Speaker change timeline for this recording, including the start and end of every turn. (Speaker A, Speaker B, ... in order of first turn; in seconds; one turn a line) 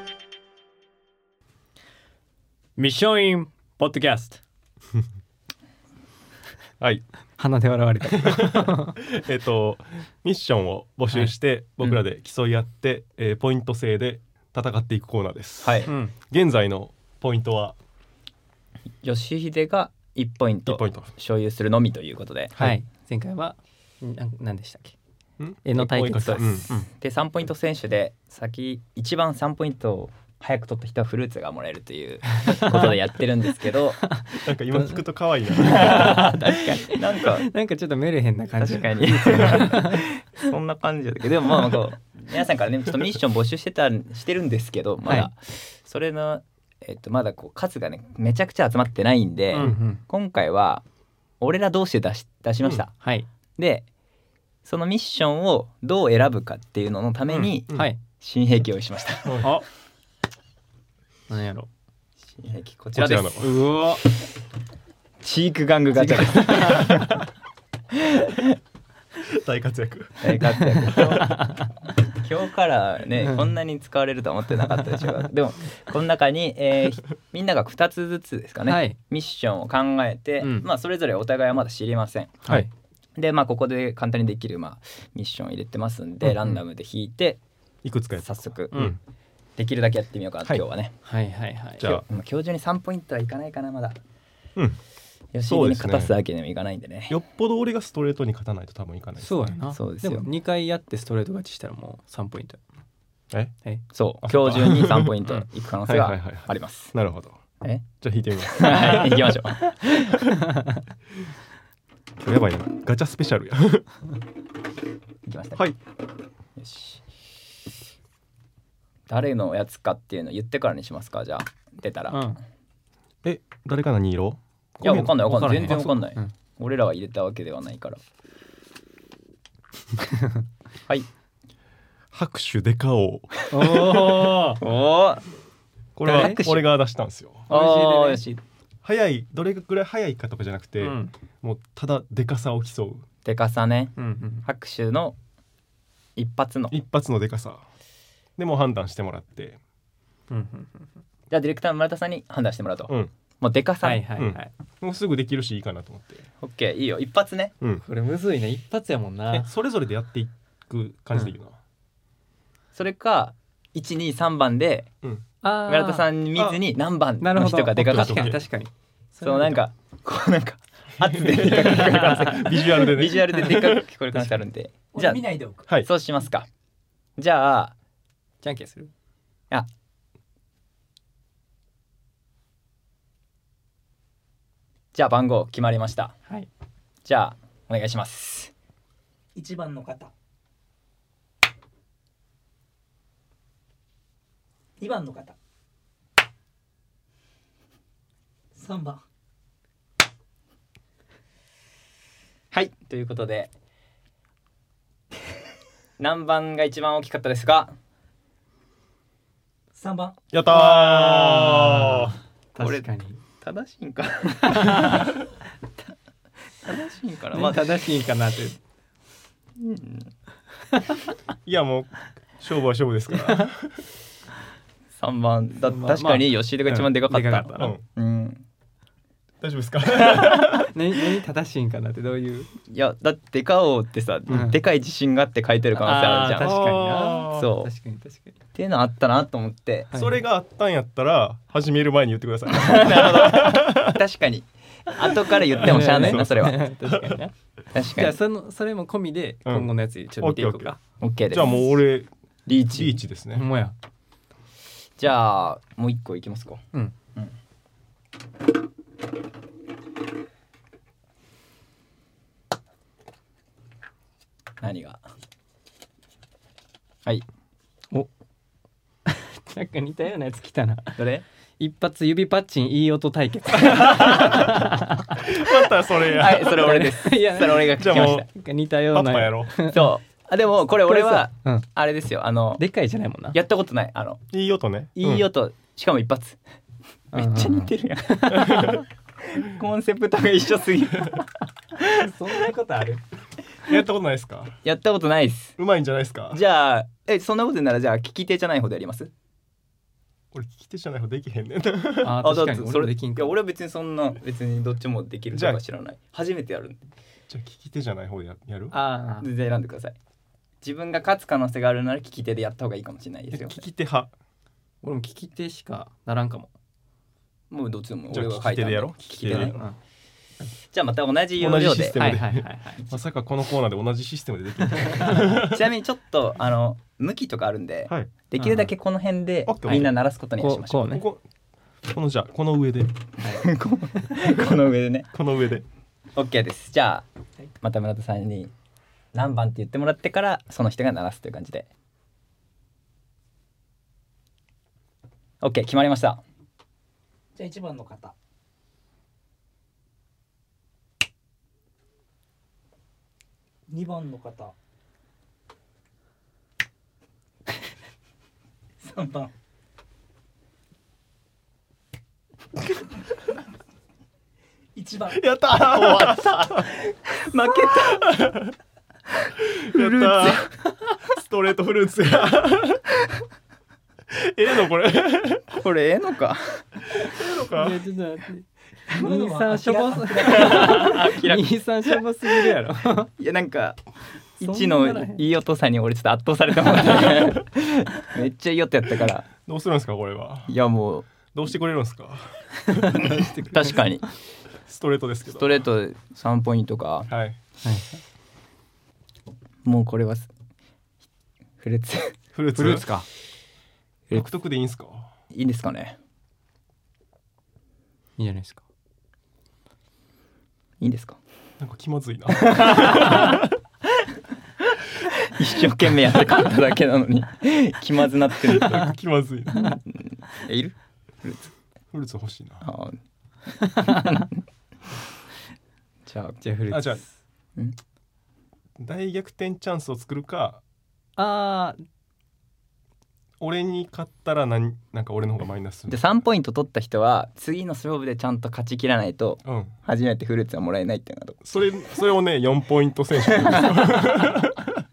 Speaker A: 2.8-4.4
Speaker B: 6.8-7.0
Speaker A: 7.4-9.0
Speaker B: 8.2-17.8
Speaker C: 15.6-15.9
Speaker A: 15.9-16.1
Speaker C: 19.0-22.6
Speaker B: 20.7-21.1
Speaker A: 22.6-24.9
Speaker B: 25.4-26.7
Speaker A: 25.6-26.9
Speaker C: 26.2-34.0
Speaker A: 32.5-32.9
Speaker A: 34.0-35.0
Speaker B: 34.4-36.2
Speaker A: 35.5-40.1
Speaker C: 35.6-37.5
Speaker C: 38.6-50.8
Speaker A: 45.0-45.3
Speaker A: 49.5-50.0
Speaker C: 51.4-52.9
Speaker A: 53.0-53.3
Speaker C: 53.6-53.9
Speaker C: 54.6-59.5
Speaker A: 57.3-58.0
Speaker B: 59.2-59.5
Speaker A: 61.3-61.7
Speaker C: 62.4-63.4
Speaker B: 63.0-63.6
Speaker A: 63.4-64.0
Speaker C: 65.2-67.1
Speaker A: 66.1-67.2
Speaker C: 68.0-68.5
Speaker B: 69.2-70.4
Speaker C: 70.2-71.5
Speaker A: 70.8-71.7
Speaker C: 72.1-82.5
Speaker A: 78.7-79.0
Speaker A: 80.4-80.7
Speaker A: 82.4-82.7
Speaker C: 83.2-87.4
Speaker A: 86.3-86.6
Speaker B: 87.8-89.0
Speaker C: 88.2-88.9
Speaker A: 88.7-89.0
Speaker C: 89.6-91.0
Speaker A: 91.0-91.9
Speaker B: 91.8-92.0
Speaker C: 91.8-94.0
Speaker C: 95.3-97.2
Speaker B: 95.5-96.2
Speaker B: 97.1-99.6
Speaker A: 99.2-102.6
Speaker C: 99.7-100.3
Speaker C: 103.9-106.9
Speaker B: 104.2-105.2
Speaker B: 105.9-107.4
Speaker C: 107.6-107.9
Speaker B: 108.0-109.3
Speaker C: 108.4-110.3
Speaker B: 112.2-113.9
Speaker C: 115.2-115.7
Speaker C: 116.6-117.0
Speaker C: 119.1-122.2
Speaker A: 122.1-122.4
Speaker B: 123.2-125.8
Speaker C: 124.8-128.0
Speaker A: 125.2-126.3
Speaker B: 132.1-133.4
Speaker A: 133.5-134.6
Speaker C: 133.9-135.2
Speaker B: 136.0-137.5
Speaker C: 136.0-136.7
Speaker A: 136.1-136.5
Speaker A: 137.5-138.3
Speaker C: 137.5-138.4
Speaker B: 138.8-143.1
Speaker A: 140.8-141.1
Speaker C: 143.2-145.2
Speaker A: 144.0-144.4
Speaker C: 146.2-146.8
Speaker B: 146.7-147.6
Speaker B: 148.4-149.6
Speaker A: 150.3-150.9
Speaker C: 151.3-154.1
Speaker A: 153.8-154.5
Speaker B: 154.2-156.3
Speaker C: 156.4-157.5
Speaker A: 157.8-159.5
Speaker B: 159.3-161.6
Speaker C: 162.7-164.9
Speaker A: 165.4-166.1
Speaker C: 165.7-168.4
Speaker A: 167.2-169.6
Speaker B: 167.8-168.4
Speaker C: 169.2-175.2
Speaker B: 171.0-173.8
Speaker A: 171.6-171.9
Speaker D: 174.9-175.7
Speaker C: 175.8-176.5
Speaker C: 177.2-177.7
Speaker A: 178.4-178.9
Speaker C: 184.9-186.2
Speaker C: 187.1-188.5
Speaker D: 189.3-190.1
Speaker D: 194.8-195.4
Speaker D: 198.5-199.0
Speaker C: 202.5-203.5
Speaker C: 206.0-207.7
Speaker D: 209.8-210.2
Speaker B: 210.3-212.2
Speaker A: 210.5-213.2
Speaker C: 212.6-215.2
Speaker A: 214.5-215.2
Speaker C: 216.6-217.7
Speaker A: 217.3-218.6
Speaker C: 219.6-220.1
Speaker B: 221.5-223.8
Speaker C: 224.9-228.4
Speaker A: 225.7-227.8
Speaker B: 227.6-227.8
Speaker B: 229.4-230.7
Speaker A: 230.0-232.5
Speaker C: 232.7-236.5
Speaker B: 234.3-234.5
Speaker A: 234.3-234.6
Speaker A: 235.7-238.3
Speaker B: 236.4-237.5
Speaker C: 237.3-237.7
Speaker C: 238.5-239.9
Speaker A: 239.9-240.2
Speaker B: 239.9-244.0
Speaker C: 242.5-246.6
Speaker A: 245.5-250.8
Speaker B: 245.6-247.2
Speaker C: 247.7-248.2
Speaker B: 249.4-250.7
Speaker C: 251.0-251.6
Speaker B: 251.3-252.1
Speaker C: 252.5-253.0
Speaker B: 252.7-253.5
Speaker A: 253.3-253.8
Speaker C: 255.0-256.6
Speaker C: 264.6-265.0
Speaker A: 269.1-271.0
Speaker C: 271.0-271.2
Speaker A: 271.6-275.4
Speaker B: 273.7-274.4
Speaker B: 275.2-276.6
Speaker C: 275.9-278.3
Speaker A: 276.3-279.9
Speaker B: 277.8-278.3
Speaker B: 278.9-279.6
Speaker C: 279.7-282.6
Speaker A: 280.9-281.7
Speaker A: 282.6-283.4
Speaker C: 283.3-284.2
Speaker B: 284.3-285.3
Speaker C: 285.0-286.4
Speaker A: 287.1-288.7
Speaker C: 287.1-292.3
Speaker B: 288.3-288.8
Speaker A: 292.0-293.0
Speaker B: 293.6-294.6
Speaker C: 294.6-295.6
Speaker B: 295.6-296.4
Speaker C: 296.3-299.1
Speaker B: 300.3-302.2
Speaker A: 302.0-303.3
Speaker C: 302.2-306.9
Speaker B: 305.3-305.6
Speaker B: 307.3-308.8
Speaker A: 308.7-309.3
Speaker C: 309.2-310.0
Speaker C: 310.6-313.6
Speaker B: 313.3-314.1
Speaker A: 314.8-316.5
Speaker C: 317.5-319.6
Speaker B: 318.1-319.6
Speaker A: 319.5-319.8
Speaker C: 320.7-322.0
Speaker B: 321.4-325.6
Speaker A: 322.0-322.9
Speaker C: 325.2-331.0
Speaker A: 328.4-328.7
Speaker B: 329.5-329.9
Speaker A: 329.7-331.1
Speaker B: 330.9-331.2
Speaker B: 331.9-333.0
Speaker C: 333.2-335.1
Speaker B: 335.1-335.6
Speaker C: 336.1-337.1
Speaker C: 337.6-338.5
Speaker C: 339.1-341.7
Speaker C: 345.4-346.2
Speaker D: 347.4-348.1
Speaker D: 353.7-354.5
Speaker D: 358.8-359.3
Speaker D: 364.8-365.2
Speaker B: 365.1-366.7
Speaker C: 365.6-368.3
Speaker B: 368.2-368.5
Speaker B: 369.5-370.5
Speaker C: 369.7-370.5
Speaker B: 371.1-372.9
Speaker B: 374.1-375.6
Speaker C: 375.5-376.8
Speaker B: 377.0-377.8
Speaker A: 377.1-383.1
Speaker D: 378.9-380.9
Speaker C: 380.1-381.6
Speaker C: 383.2-383.8
Speaker C: 384.4-389.3
Speaker A: 384.4-385.2
Speaker B: 389.5-390.6
Speaker C: 390.5-391.1
Speaker B: 391.3-393.7
Speaker C: 392.9-394.1
Speaker B: 394.7-395.7
Speaker C: 395.3-397.1
Speaker B: 397.1-397.4
Speaker A: 397.6-398.0
Speaker C: 399.6-400.3
Speaker C: 401.6-402.2
Speaker B: 402.3-402.9
Speaker A: 402.6-403.1
Speaker B: 404.1-405.1
Speaker C: 405.3-406.0
Speaker A: 408.2-408.6
Speaker C: 410.8-411.2
Speaker B: 411.6-413.4
Speaker C: 412.4-413.4
Speaker C: 415.2-418.9
Speaker B: 418.4-419.8
Speaker C: 419.6-421.5
Speaker B: 421.9-422.7
Speaker C: 422.6-423.0
Speaker C: 423.7-424.3
Speaker C: 426.1-426.4
Speaker A: 426.4-427.1
Speaker B: 426.7-427.0
Speaker B: 428.8-430.6
Speaker A: 431.2-431.8
Speaker B: 433.4-436.2
Speaker C: 435.9-441.4
Speaker B: 439.4-439.8
Speaker B: 441.4-444.8
Speaker C: 443.4-444.0